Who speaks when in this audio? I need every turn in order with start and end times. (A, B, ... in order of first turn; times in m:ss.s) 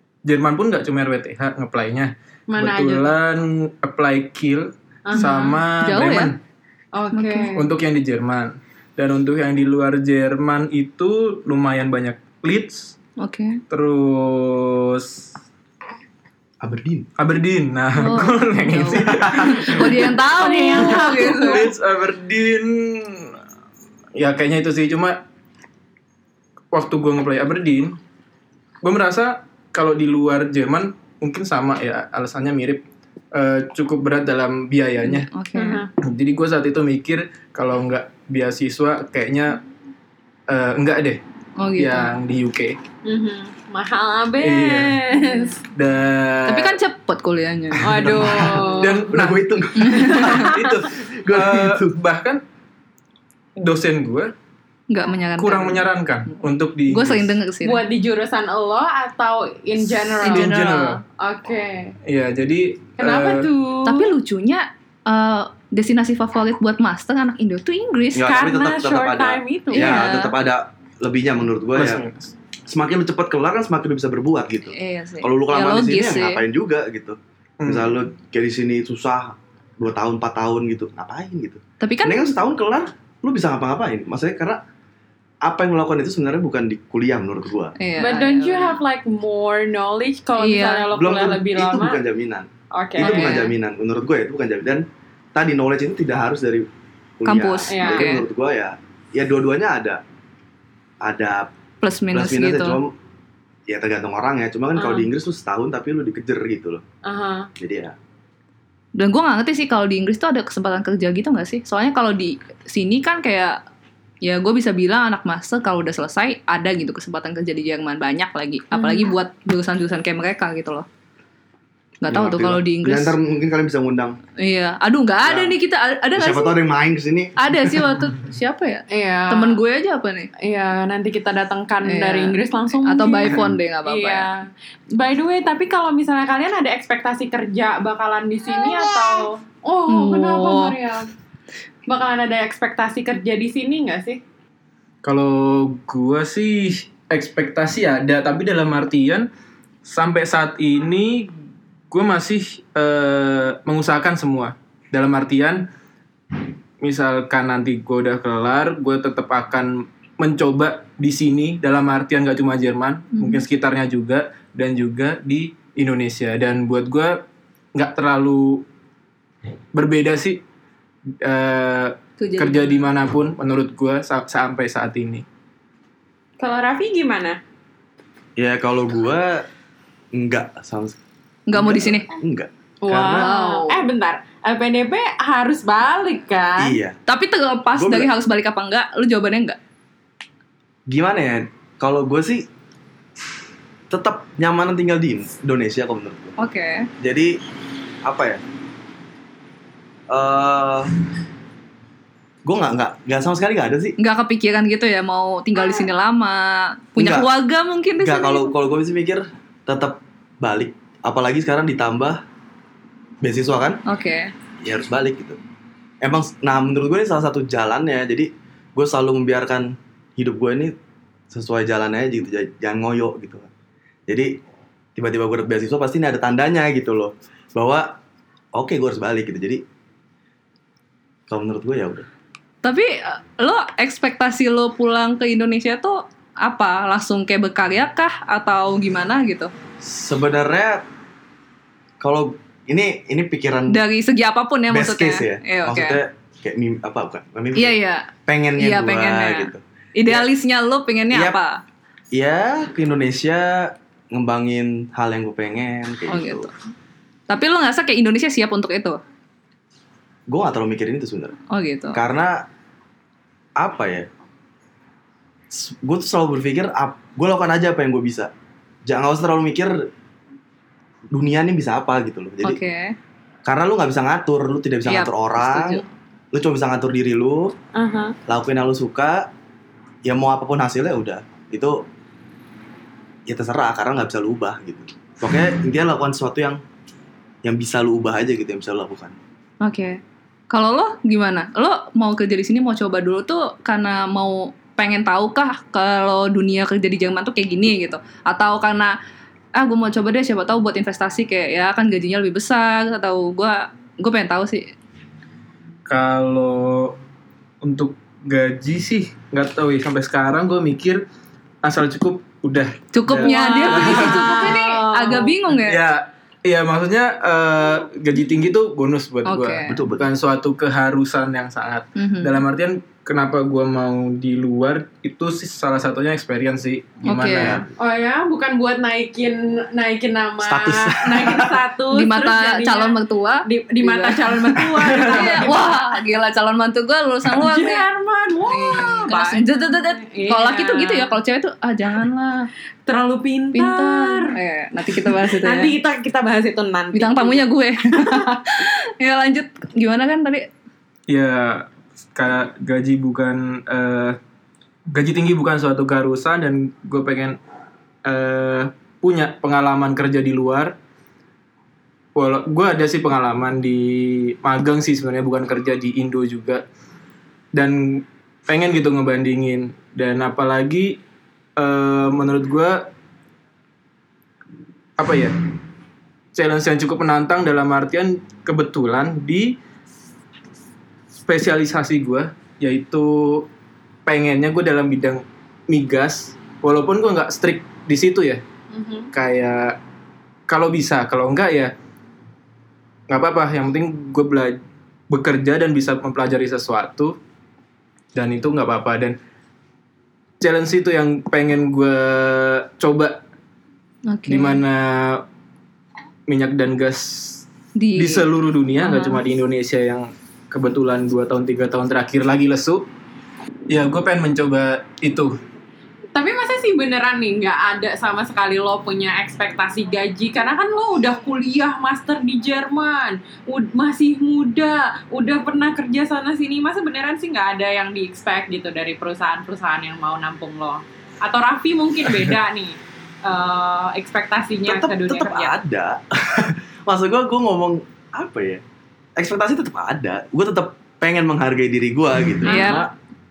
0:00.2-0:06.4 A
0:02.5-0:03.1 B
0:05.0-0:05.6 B
0:05.1-0:06.3 C
0:06.9-0:07.6 B
0:07.1-0:07.5 C
0:07.5-0:13.0 A
0:13.2-0:13.6 C
0:13.7-0:15.3 A
0:16.6-0:17.1 D
0:17.2-0:23.4 A
0:18.0-0:21.7 C
0:18.9-0:19.8 D
0:20.3-0:21.7 B
0:24.2-0:25.2 A
0:26.7-0:28.0 A
0:28.8-0:35.3 A
0:35.0-0:35.8 C
0:35.5-0:35.9 B
0:36.0-0:39.6 A
0:40.5-0:41.2 A
0:41.6-0:42.2 C
0:41.8-0:42.8 A
0:43.0-0:45.6 B
0:44.4-0:45.0 A
0:45.2-0:45.5 C
0:45.7-0:46.8 A
0:46.5-0:48.1 C
0:47.8-0:49.1 B
0:47.9-0:49.4 A
0:48.1-0:51.9 D
0:49.8-0:50.5 C
0:50.2-0:52.4 A
0:53.6-0:54.3 A
0:54.9-0:55.9 C
0:55.4-0:57.4 A
0:56.9-0:57.8 C
0:57.6-1:00.5 B
1:00.2-1:01.0 A
1:00.2-1:01.0 C
1:01.2-1:01.9 B
1:02.0-1:03.5 A
1:03.0-1:04.1 B
1:03.8-1:08.3 C
1:08.1-1:12.0 D
1:08.2-1:10.0 B
1:09.7-1:10.3 C
1:11.8-1:12.3 A
1:12.7-1:24.6 D
1:14.7-1:16.4 C
1:17.6-1:17.9 A
1:21.8-1:22.3 C
1:25.4-1:27.7 D
1:27.8-1:28.8 C
1:28.0-1:32.0 B
1:30.4-1:30.9 C
1:30.9-1:36.7 D
1:32.7-1:33.4 B
1:33.0-1:33.5 C
1:37.2-1:40.0 D
1:37.2-1:38.2 C
1:37.7-1:38.1 B
1:41.0-1:41.5 D
1:41.8-1:42.8 C
1:42.1-1:42.9 D
1:43.7-1:46.8 D
1:44.8-1:45.1 B
1:47.0-1:47.5 B
1:47.6-1:48.0 D
1:49.0-1:53.6 C
1:54.2-2:00.8 C
1:58.7-1:59.1 B
2:02.0-2:03.2 C
2:02.1-2:04.2 D
2:04.4-2:06.6 C
2:05.2-2:05.5 D
2:06.2-2:07.8 D
2:07.4-2:10.3 C
2:08.9-2:09.6 B
2:10.4-2:21.1 B
2:11.8-2:14.3 C
2:18.8-2:19.2 C
2:19.9-2:20.8 C
2:21.8-2:24.2 B
2:25.0-2:29.3 A
2:29.8-2:31.3 A
2:31.9-2:35.7 A
2:36.8-2:47.2 A
2:43.1-2:43.4 C
2:47.7-2:48.6 A
2:49.7-2:50.4 A
2:51.2-2:55.2 A
2:52.2-2:52.9 C
2:56.4-2:57.4 B
2:58.4-2:59.4 D
3:00.1-3:01.0 D
3:01.5-3:02.1 C
3:01.5-3:03.3 D
3:02.8-3:06.8 B
3:03.1-3:03.8 C
3:06.6-3:07.0 D
3:07.1-3:09.6 C
3:07.7-3:08.1 D
3:10.9-3:12.5 D
3:13.9-3:16.4 D
3:16.4-3:16.9 C
3:17.0-3:17.4 D
3:18.0-3:18.4 D
3:20.1-3:20.9 D
3:22.4-3:24.0 D
3:24.0-3:28.5 C
3:25.6-3:25.9 B
3:27.0-3:27.3 D
3:28.0-3:32.2 D
3:33.2-3:33.8 D
3:33.8-3:34.3 C
3:34.6-3:35.4 D
3:36.0-3:40.7 D
3:41.3-3:43.5 D
3:44.1-3:44.4 D
3:45.0-3:48.0 D
3:48.5-3:49.6 D
3:51.3-3:52.1 D
3:52.6-3:59.5 C
3:59.8-4:00.8 D
4:02.0-4:03.8 D
4:03.7-4:06.0 C
4:04.7-4:10.3 D
4:07.5-4:11.6 C
4:11.1-4:11.4 D
4:12.1-4:16.5 D
4:16.1-4:16.5 C
4:17.3-4:19.0 C
4:20.3-4:21.4 D
4:21.5-4:22.0 C
4:21.9-4:22.4 D
4:23.6-4:24.1 D
4:25.5-4:28.3 D
4:28.8-4:29.9 D
4:31.1-4:32.6 D
4:32.4-4:33.0 C
4:33.4-4:35.8 D
4:34.8-4:35.8 C
4:36.3-4:37.5 D
4:37.7-4:38.2 B
4:38.3-4:39.3 D
4:40.0-4:41.8 D
4:43.3-4:46.6 D
4:47.4-4:49.2 D
4:49.6-4:58.9 C
4:59.6-5:04.7 C
5:05.9-5:07.0 A
5:07.6-5:11.0 A
5:11.6-5:14.5 A
5:12.9-5:15.8 C
5:13.2-5:15.3 B
5:15.6-5:27.7 A
5:19.2-5:19.8 C
5:19.7-5:20.1 D
5:22.0-5:22.4 C
5:27.0-5:27.6 C
5:27.4-5:27.6 D
5:27.8-5:35.8 B
5:30.4-5:31.6 D
5:31.9-5:37.8 C
5:34.7-5:35.5 D
5:37.3-5:41.1 B
5:38.5-5:42.5 C
5:42.8-5:44.4 B
5:43.5-5:45.7 C
5:45.0-5:48.4 B
5:46.9-5:50.5 C
5:51.1-5:54.2 A
5:54.9-5:57.4 A
5:58.0-6:00.7 A
6:02.2-6:06.6 A
6:07.5-6:11.0 A
6:11.6-6:12.9 A
6:15.0-6:15.4 A
6:16.3-6:19.6 A
6:21.2-6:23.5 A
6:24.0-6:28.4 A
6:28.7-6:29.1 B
6:29.1-6:29.8 A
6:30.5-6:31.7 A
6:33.1-6:37.2 A
6:38.1-6:39.2 A
6:40.4-6:43.2 A
6:44.1-6:44.6 C
6:44.3-6:45.2 A
6:46.3-6:52.8 A
6:47.8-6:48.2 C
6:48.8-6:49.2 C
6:53.7-6:55.4 A
6:56.1-7:15.5 B
7:14.6-7:18.6 D
7:19.2-7:22.9 D
7:22.4-7:22.9 B
7:22.4-7:22.8 C